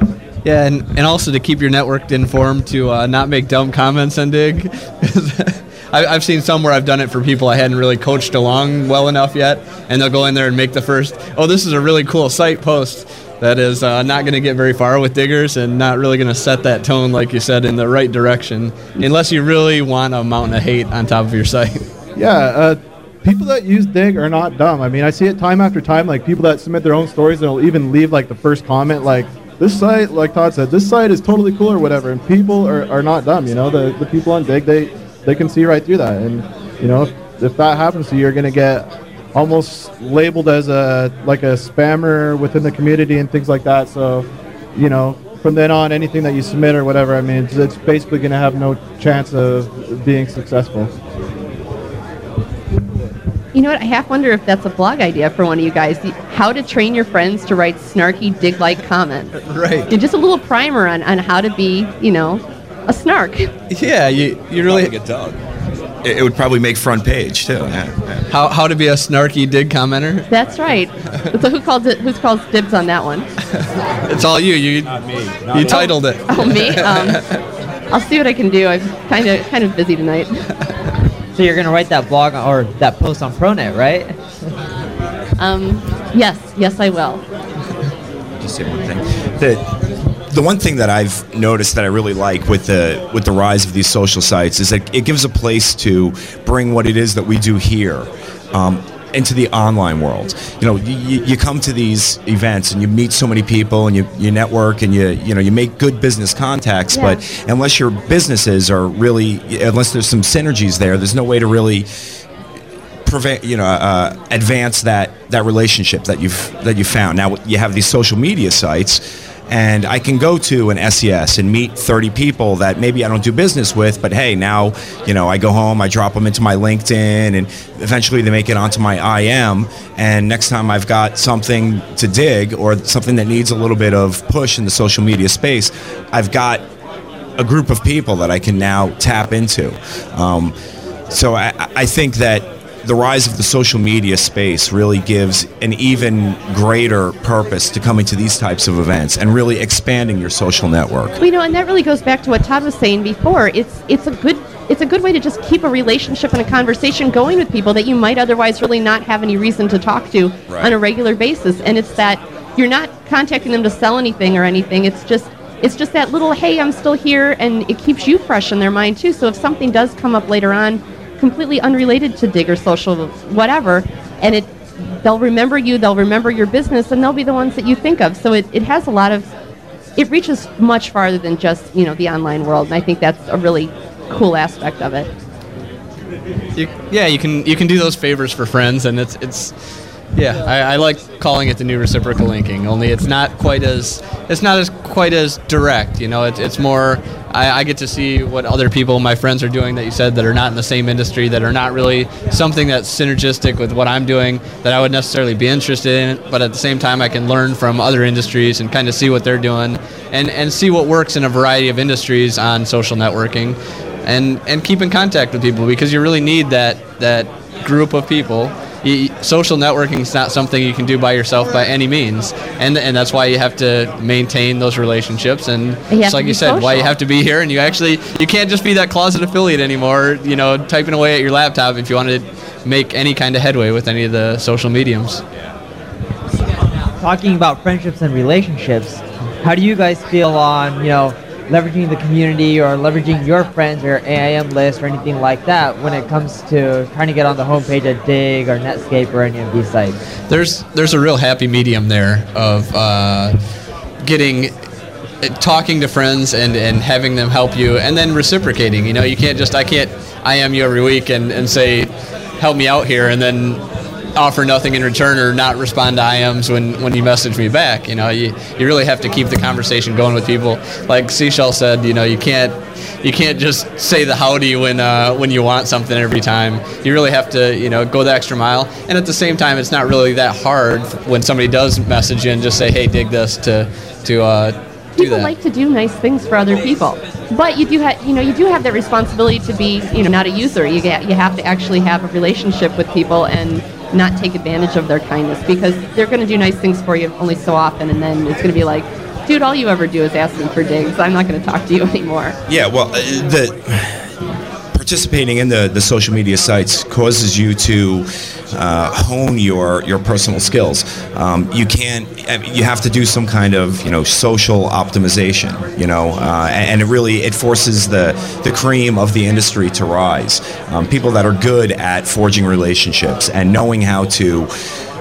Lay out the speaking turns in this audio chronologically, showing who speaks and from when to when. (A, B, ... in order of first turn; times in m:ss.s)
0:00.4-0:21.9 A
0:22.2-0:50.9 B
0:53.5-0:59.4 C
0:59.4-0:59.9 A
0:59.9-1:03.5 C
1:03.7-1:04.9 A
1:04.6-1:05.4 D
1:06.0-1:08.2 D
1:08.3-1:10.3 A
1:10.3-1:13.3 C
1:14.0-1:17.4 A
1:14.9-1:15.8 D
1:15.6-1:17.2 C
1:17.9-1:20.4 C
1:21.3-1:24.2 E
1:25.4-1:27.2 C
1:28.4-1:51.9 D
1:46.9-1:47.2 C
1:53.0-2:16.6 D
2:17.4-2:20.5 D
2:21.1-2:31.2 D
2:31.2-2:59.3 C
2:40.5-2:40.8 D
3:00.0-3:05.1 C
3:06.5-3:09.5 A
3:10.1-3:55.2 A
3:45.9-3:46.9 C
3:57.0-4:10.0 E
4:10.3-4:13.3 A
4:14.0-4:14.5 A
4:15.2-4:23.6 A
4:24.1-4:45.3 A
4:45.0-5:02.4 C
5:02.5-5:04.1 D
5:04.7-5:24.5 D